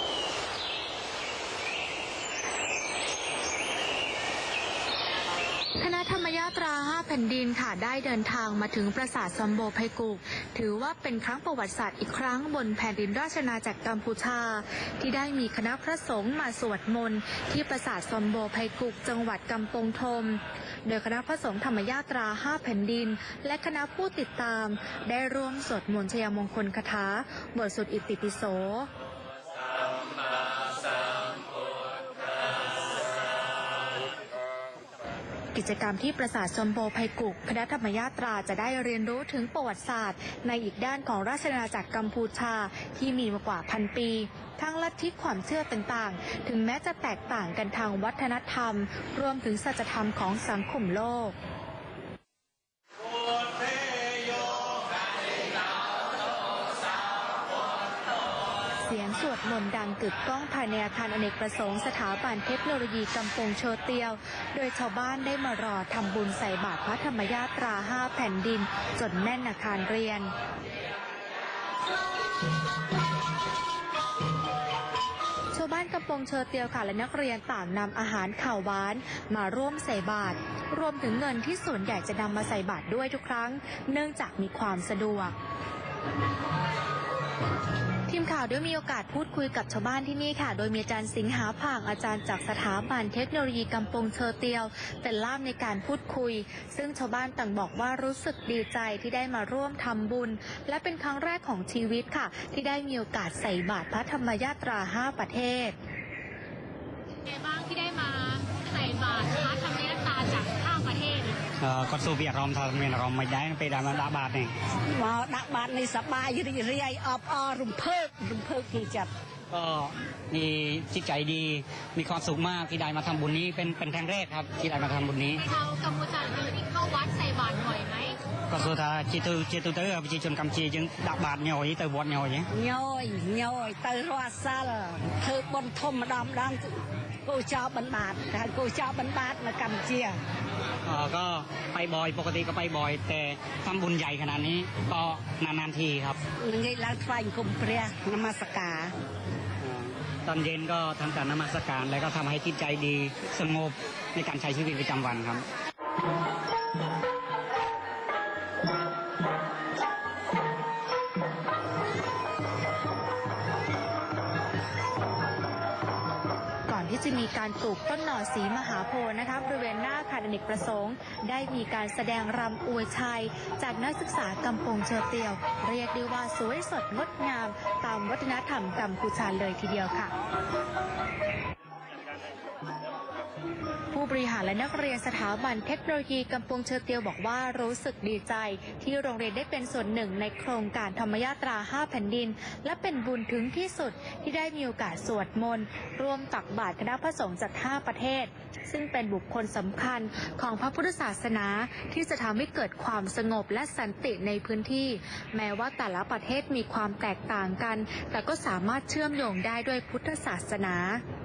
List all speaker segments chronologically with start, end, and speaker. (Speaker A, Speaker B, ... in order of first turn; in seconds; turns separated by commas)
Speaker A: 5.8-28.9, Speaker A: 35.5-51.4, Speaker A: 58.8-70.3, Speaker A: 75.5-85.3, Speaker A: 88.1-105.8, Speaker B: 107.3-111.5, Speaker C: 111.6-114.5, Speaker D: 114.9-119.1, Speaker C: 119.5-125.5, Speaker B: 125.5-128.2, Speaker C: 128.5-132.5, Speaker D: 132.5-140.2, Speaker C: 140.8-146.2, Speaker D: 146.4-148.9, Speaker C: 149.6-155.5, Speaker A: 166.7-180.1, Speaker A: 183.9-211.0